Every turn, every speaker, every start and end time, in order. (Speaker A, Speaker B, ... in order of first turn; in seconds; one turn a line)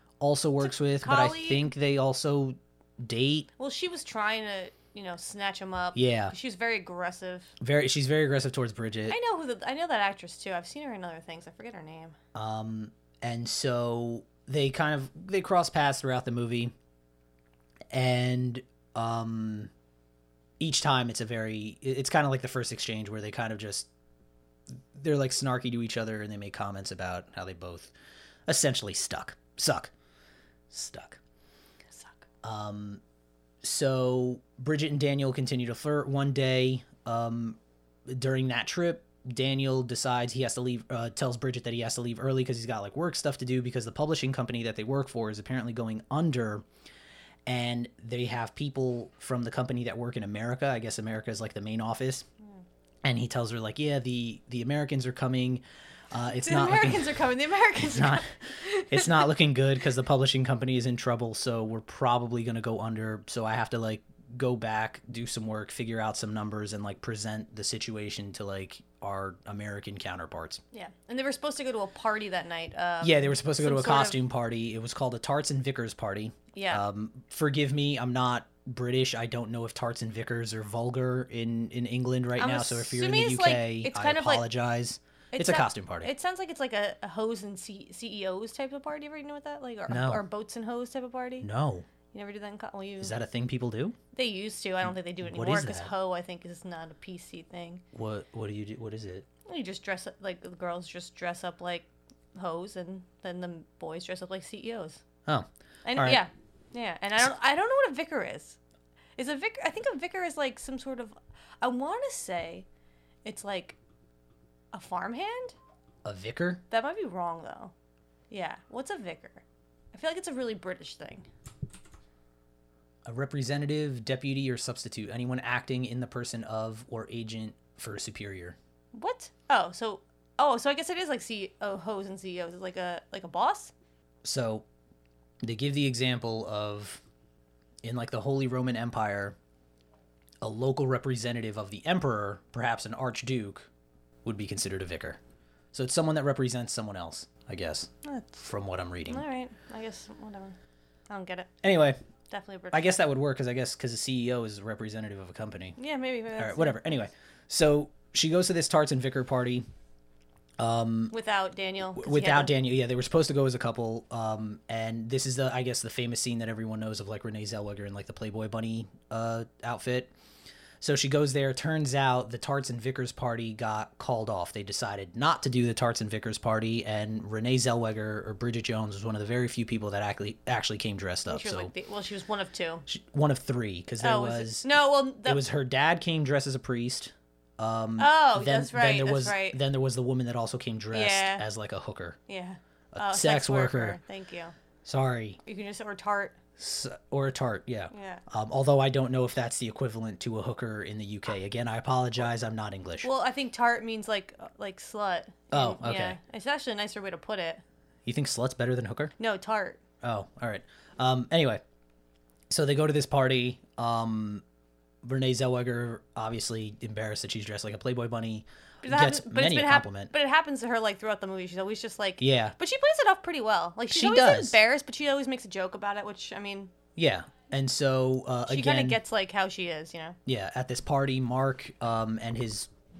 Speaker A: 0.2-3.5
Speaker B: 0.6-1.7
Speaker B: 3.6-7.5
Speaker A: 5.9-6.3
Speaker A: 7.6-9.2
Speaker B: 9.1-12.2
Speaker A: 12.3-16.7
Speaker A: 17.9-19.7
Speaker A: 20.6-23.9
Speaker A: 24.9-27.9
Speaker A: 28.5-29.9
Speaker A: 30.7-31.2
Speaker B: 31.9-32.2
Speaker A: 32.4-33.0
Speaker A: 33.6-46.6
Speaker A: 47.5-52.2
Speaker A: 53.0-57.2
Speaker B: 56.3-59.3
Speaker A: 57.8-58.4
Speaker A: 58.9-70.6
Speaker B: 70.7-74.2
Speaker A: 73.0-86.1
Speaker B: 76.5-76.8
Speaker B: 82.4-84.5
Speaker B: 85.3-91.5
Speaker A: 89.9-90.2
Speaker A: 91.4-91.9
Speaker B: 92.1-93.2
Speaker A: 93.0-94.0
Speaker B: 94.1-97.8
Speaker A: 95.2-95.9
Speaker A: 97.9-99.2
Speaker B: 99.5-105.0
Speaker A: 105.2-106.2
Speaker B: 105.8-108.6
Speaker B: 109.2-112.7
Speaker B: 113.2-113.8
Speaker B: 114.7-115.5
Speaker A: 116.0-116.6
Speaker B: 116.7-117.7
Speaker B: 118.3-121.3
Speaker A: 123.0-128.6
Speaker B: 128.9-133.7
Speaker A: 134.2-134.6
Speaker A: 135.4-137.0
Speaker A: 137.8-139.4
Speaker A: 140.4-143.7
Speaker A: 144.2-145.2
Speaker A: 145.7-149.2
Speaker B: 148.0-148.4
Speaker B: 149.1-150.6
Speaker B: 151.1-151.5
Speaker A: 151.6-152.0
Speaker B: 152.3-153.0
Speaker A: 152.7-155.8
Speaker B: 155.8-156.8
Speaker A: 156.3-159.6
Speaker A: 160.6-161.1
Speaker B: 161.1-162.5
Speaker A: 161.9-170.1
Speaker A: 170.8-181.7
Speaker B: 181.3-182.8
Speaker A: 182.9-184.7
Speaker B: 184.0-185.4
Speaker A: 185.2-192.2
Speaker B: 188.0-189.6
Speaker B: 190.9-191.4
Speaker B: 192.3-194.5
Speaker A: 192.9-194.0
Speaker A: 194.8-195.4
Speaker B: 195.4-196.4
Speaker A: 196.6-203.1
Speaker B: 197.9-198.2
Speaker B: 203.0-207.6
Speaker A: 205.5-206.2
Speaker A: 208.0-209.1
Speaker B: 209.2-209.8
Speaker A: 210.0-211.6
Speaker A: 212.5-214.4
Speaker A: 215.0-220.1
Speaker B: 218.8-226.7
Speaker A: 222.2-222.5
Speaker A: 223.9-224.6
Speaker A: 226.9-229.0
Speaker B: 228.5-230.2
Speaker A: 230.2-232.7